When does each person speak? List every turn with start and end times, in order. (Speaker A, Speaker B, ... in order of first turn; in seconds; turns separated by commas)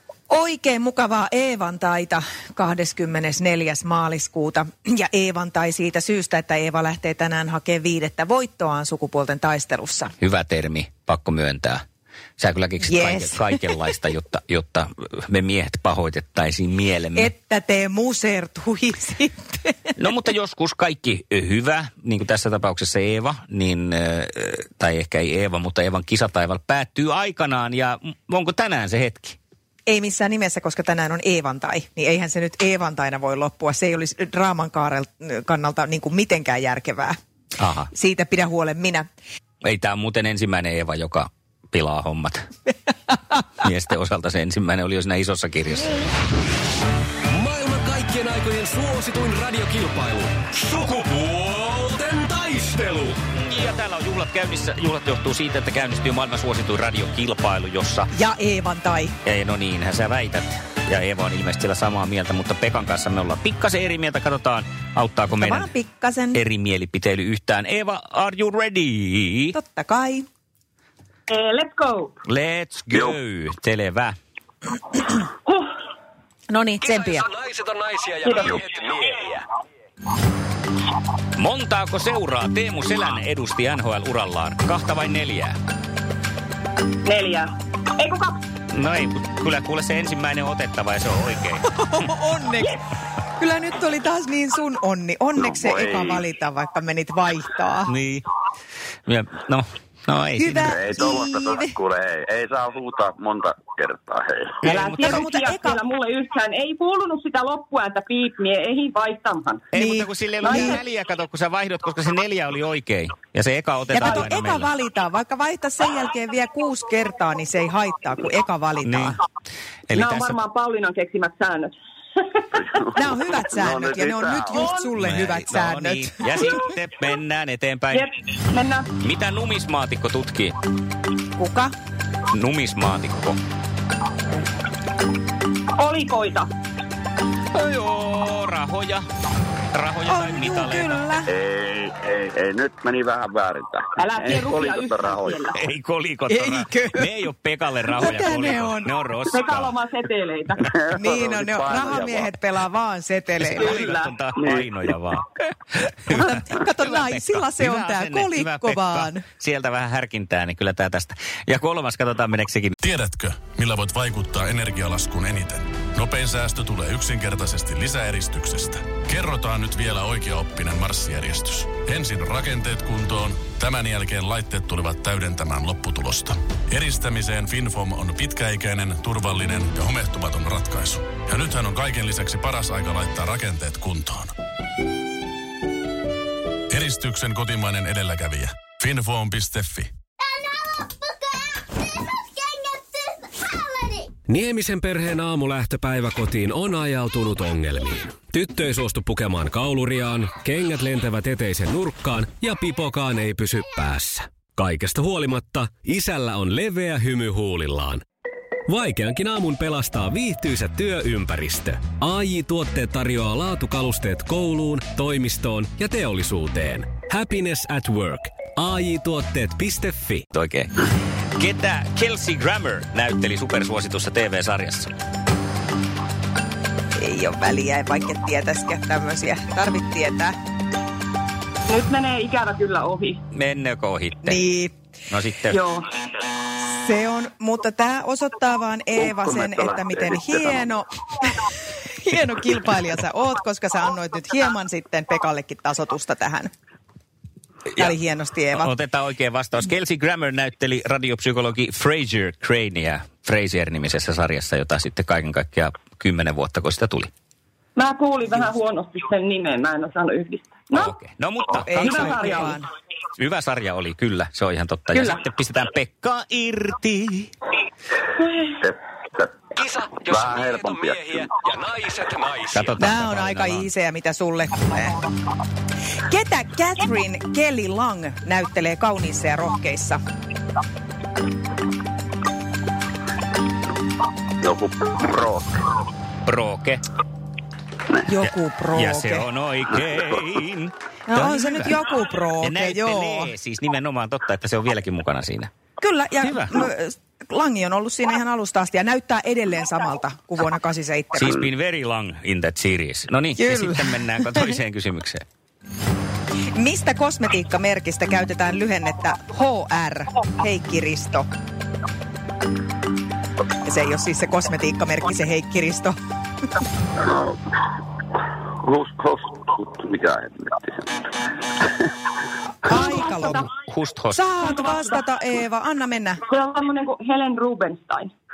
Speaker A: 0.3-10.1, Speaker B: 10.2-11.8, Speaker B: 12.4-17.3, Speaker A: 12.8-13.6, Speaker A: 17.1-19.9, Speaker B: 20.0-29.4, Speaker A: 29.9-37.1, Speaker B: 37.6-37.9, Speaker A: 37.9-39.0, Speaker B: 39.6-42.4, Speaker B: 43.3-46.1, Speaker C: 47.3-53.2, Speaker B: 53.3-58.1, Speaker A: 58.1-59.1, Speaker B: 59.2-65.7, Speaker A: 65.3-66.4, Speaker B: 66.3-69.5, Speaker A: 69.5-70.2, Speaker D: 71.3-72.2, Speaker B: 72.2-74.1, Speaker D: 75.5-75.7, Speaker A: 76.5-77.3, Speaker C: 76.8-79.4, Speaker D: 78.2-78.6, Speaker B: 81.4-85.6, Speaker D: 87.0-88.4, Speaker B: 88.7-91.6, Speaker A: 91.7-92.8, Speaker A: 93.4-97.9, Speaker E: 95.4-96.2, Speaker B: 97.9-98.2, Speaker B: 99.1-100.8, Speaker A: 100.4-101.8, Speaker E: 100.6-104.7, Speaker B: 104.6-105.3, Speaker D: 104.6-109.7, Speaker A: 105.0-105.8, Speaker B: 109.7-114.7, Speaker A: 109.8-110.8, Speaker D: 110.4-110.8, Speaker A: 113.9-119.2, Speaker B: 118.8-119.2, Speaker B: 119.9-120.4, Speaker D: 119.9-122.4, Speaker E: 122.6-124.7, Speaker A: 122.9-126.4, Speaker D: 124.5-124.9, Speaker B: 124.9-128.1, Speaker D: 127.9-129.0, Speaker B: 129.0-130.5, Speaker A: 131.3-131.7, Speaker B: 132.3-133.4, Speaker D: 135.7-136.5, Speaker B: 137.5-139.1, Speaker B: 139.7-141.0, Speaker A: 140.1-141.3, Speaker E: 141.3-145.6, Speaker D: 144.0-145.5, Speaker B: 145.5-149.8, Speaker A: 146.3-147.1, Speaker A: 147.9-148.9, Speaker D: 149.3-150.7, Speaker E: 150.6-152.3, Speaker A: 150.9-153.8, Speaker B: 153.4-162.8, Speaker D: 153.5-154.1, Speaker E: 154.3-154.7, Speaker A: 156.1-159.2, Speaker F: 162.8-184.3, Speaker F: 186.7-189.9, Speaker C: 194.3-208.0, Speaker C: 208.7-220.2, Speaker B: 220.3-220.7, Speaker B: 221.4-224.9, Speaker A: 227.0-230.3, Speaker D: 231.7-233.2, Speaker B: 233.3-234.4, Speaker A: 234.2-234.7, Speaker B: 235.1-235.7, Speaker D: 235.5-235.9, Speaker A: 236.6-240.9, Speaker E: 239.0-240.7, Speaker A: 241.8-246.5, Speaker A: 247.8-248.7, Speaker B: 248.5-257.1, Speaker D: 257.8-260.9, Speaker B: 260.7-262.3, Speaker A: 261.7-262.6, Speaker D: 261.8-262.6, Speaker B: 263.2-267.3, Speaker D: 268.1-268.6, Speaker E: 268.6-269.3, Speaker C: 269.6-272.7, Speaker E: 270.1-271.2, Speaker B: 272.5-273.7, Speaker A: 272.8-274.9, Speaker A: 276.1-280.0, Speaker E: 284.4-285.8, Speaker B: 286.2-286.8, Speaker A: 288.0-289.2, Speaker B: 288.2-291.8, Speaker A: 291.1-293.3, Speaker B: 292.4-295.5, Speaker A: 295.8-301.3, Speaker B: 296.2-296.6, Speaker B: 301.1-305.2, Speaker A: 303.4-304.4, Speaker A: 306.5-311.2, Speaker A: 313.6-315.9, Speaker E: 317.0-317.4, Speaker E: 318.6-321.1, Speaker A: 322.6-323.4, Speaker D: 322.7-323.3, Speaker B: 323.2-324.2, Speaker A: 324.1-326.2, Speaker D: 324.4-324.9, Speaker D: 326.3-328.1